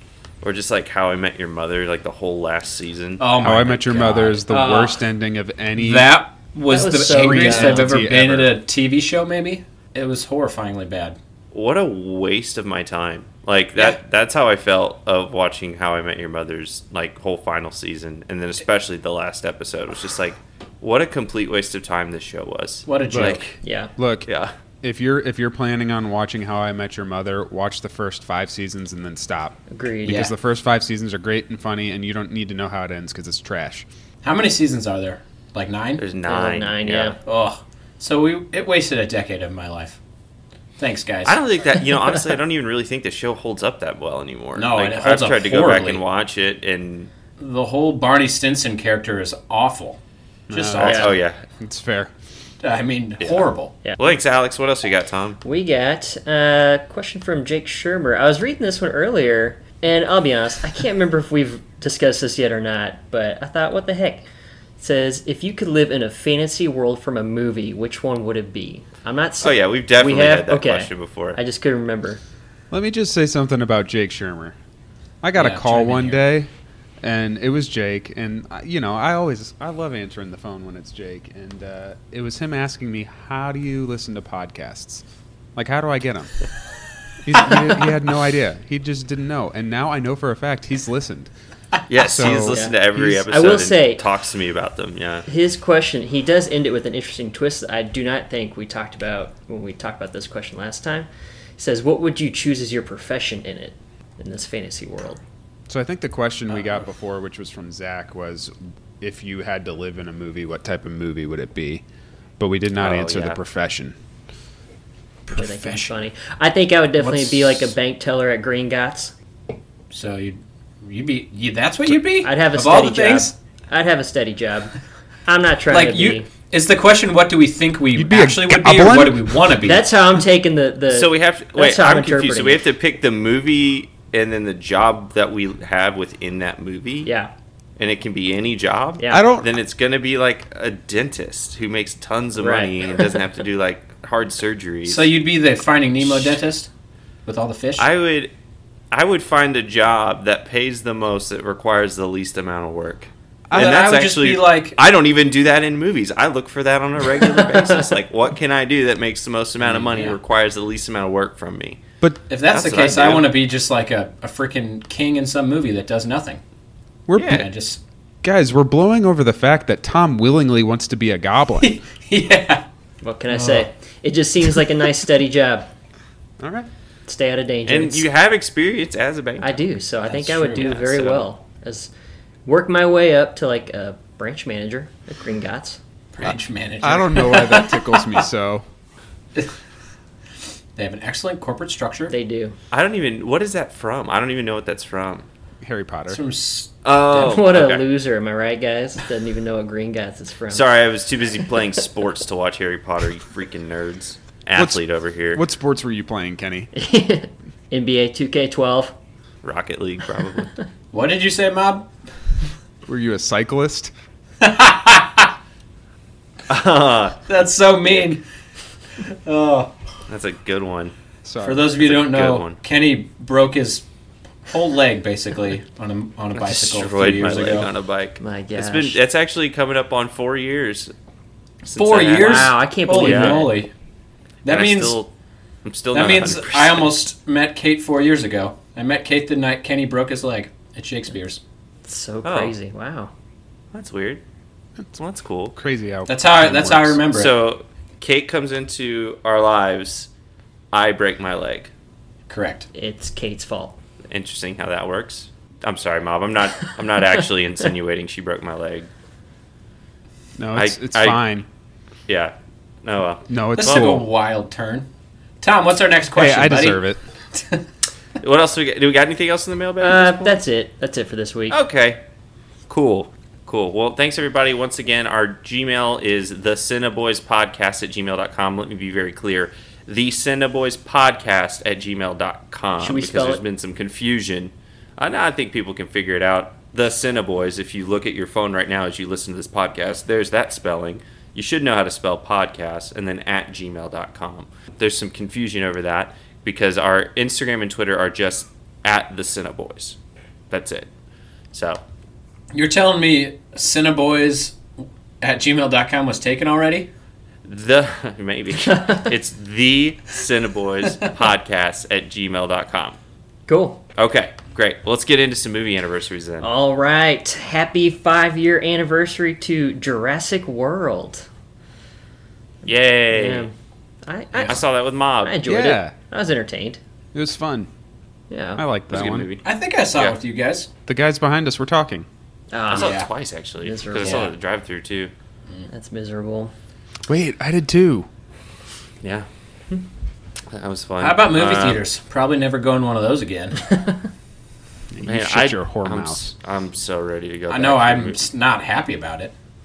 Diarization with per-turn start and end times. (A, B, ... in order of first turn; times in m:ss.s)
0:00.4-0:03.4 A
0:03.2-0:05.0 B
0:03.4-0:06.1 C
0:05.8-0:11.2 B
0:06.7-0:07.9 D
0:07.1-0:08.5 C
0:11.5-0:23.6 A
0:22.8-0:23.5 B
0:23.1-0:23.4 C
0:23.6-0:23.9 D
0:24.0-0:24.3 C
0:24.2-0:24.5 A
0:24.8-0:33.9 C
0:29.7-0:30.3 D
0:30.0-0:30.3 B
0:34.2-0:36.0 B
0:36.0-0:37.2 A
0:36.2-0:37.2 D
0:37.2-0:40.0 B
0:40.8-0:41.4 B
0:41.2-0:47.1 A
0:44.5-0:46.0 B
0:47.4-0:50.0 B
0:50.5-0:51.1 C
0:50.5-0:51.2 B
0:50.7-0:51.4 A
0:50.8-0:51.2 D
0:51.6-0:52.1 C
0:52.6-0:53.8 B
0:53.2-0:55.4 A
0:55.4-1:04.2 D
1:04.8-1:12.2 D
1:09.4-1:11.4 A
1:12.7-1:14.6 C
1:15.2-1:16.5 C
1:15.4-1:16.3 B
1:17.0-1:25.0 C
1:25.5-1:26.3 C
1:27.2-1:31.3 C
1:31.9-1:35.3 A
1:32.0-1:33.3 C
1:32.5-1:34.0 D
1:35.3-1:45.2 D
1:45.7-1:51.8 C
1:52.4-1:53.9 C
1:52.8-1:53.4 A
1:55.3-1:55.9 B
1:55.3-1:59.1 D
1:57.0-1:57.7 B
1:59.9-2:03.4 B
2:02.2-2:04.7 D
2:05.2-2:06.3 D
2:05.7-2:09.9 B
2:07.9-2:09.5 C
2:09.6-2:12.6 D
2:10.9-2:17.1 A
2:17.0-2:17.3 D
2:17.8-2:25.1 A
2:19.0-2:19.2 D
2:19.1-2:19.5 C
2:22.4-2:23.1 D
2:24.8-2:26.7 B
2:27.2-2:27.9 B
2:27.8-2:28.3 A
2:28.9-2:41.8 A
2:33.5-2:33.9 C
2:33.5-2:34.8 B
2:37.2-2:37.9 D
2:39.6-2:40.2 B
2:42.3-2:46.4 B
2:42.5-2:43.3 A
2:47.1-2:47.5 C
2:47.2-2:47.4 A
2:47.2-2:47.8 B
2:48.2-2:51.8 C
2:51.6-2:52.6 B
2:53.0-2:55.7 D
2:53.3-2:53.7 B
2:56.4-2:56.7 C
2:57.1-2:58.0 D
2:57.7-2:59.7 A
2:59.4-3:01.9 D
3:00.0-3:00.8 B
3:00.6-3:01.3 A
3:02.4-3:05.8 D
3:06.1-3:08.1 B
3:06.2-3:08.6 C
3:10.8-3:12.1 B
3:12.1-3:12.6 D
3:12.7-3:15.3 A
3:15.6-3:16.2 C
3:16.1-3:17.3 B
3:16.8-3:17.8 A
3:17.2-3:20.6 D
3:20.5-3:25.4 A
3:24.5-3:24.8 C
3:25.3-3:26.7 C
3:26.7-3:29.0 D
3:29.4-3:30.5 A
3:30.9-3:31.9 B
3:32.9-3:33.9 C
3:34.4-3:35.3 B
3:36.5-3:37.2 A
3:37.3-3:38.2 B
3:39.0-3:39.7 B
3:40.1-3:40.9 A
3:41.2-3:41.7 C
3:41.4-3:43.8 B
3:41.8-3:42.6 A
3:44.4-3:47.7 B
3:46.3-3:50.9 A
3:48.2-3:49.0 D
3:51.6-3:53.4 A
3:51.7-3:53.7 B
3:52.2-3:53.6 D
3:54.4-3:55.0 B
3:54.4-3:55.1 A
3:55.6-3:56.9 A
3:55.9-4:01.4 B
4:01.8-4:03.1 D
4:02.2-4:02.5 A
4:03.7-4:04.2 A
4:05.0-4:05.6 A
4:05.5-4:07.0 C
4:06.1-4:07.4 B
4:07.1-4:10.1 A
4:10.7-4:11.7 A
4:12.3-4:12.7 B
4:12.7-4:13.8 D
4:14.1-4:18.9 A
4:20.4-4:21.4 C
4:20.6-4:21.3 A
4:22.1-4:24.0 A
4:23.3-4:24.1 C
4:23.5-4:24.9 B
4:25.4-4:26.8 B
4:26.1-4:27.0 C
4:27.3-4:27.6 B
4:28.2-4:30.4 A
4:29.8-4:31.6 D
4:31.5-4:32.0 A
4:32.7-5:00.0 A
4:42.8-4:43.4 D
5:00.5-5:00.9 A
5:01.5-5:01.8 A
5:02.5-5:04.6 B
5:05.2-5:06.9 B
5:07.4-5:13.0 A
5:08.7-5:09.0 D
5:13.5-5:13.8 D
5:14.0-5:16.5 A
5:16.4-5:21.3 D
5:22.6-5:23.5 A
5:23.1-5:23.5 D
5:24.0-5:24.6 D
5:24.5-5:25.4 A
5:25.2-5:26.8 D
5:25.4-5:25.9 C
5:27.1-5:27.7 C
5:28.3-5:28.6 D
5:28.6-5:29.3 C
5:28.9-5:29.4 A
5:29.4-5:30.7 B
5:30.8-5:32.1 C
5:32.5-5:33.0 D
5:32.7-5:33.1 B
5:32.7-5:35.1 A
5:33.6-5:34.3 D
5:34.0-5:34.3 B
5:35.7-5:36.5 D
5:37.1-5:38.1 C
5:39.0-5:39.3 A
5:40.5-5:41.8 A
5:41.0-5:43.7 B
5:43.7-5:44.0 D
5:44.9-5:46.3 C
5:45.0-5:48.2 A
5:47.5-5:49.3 B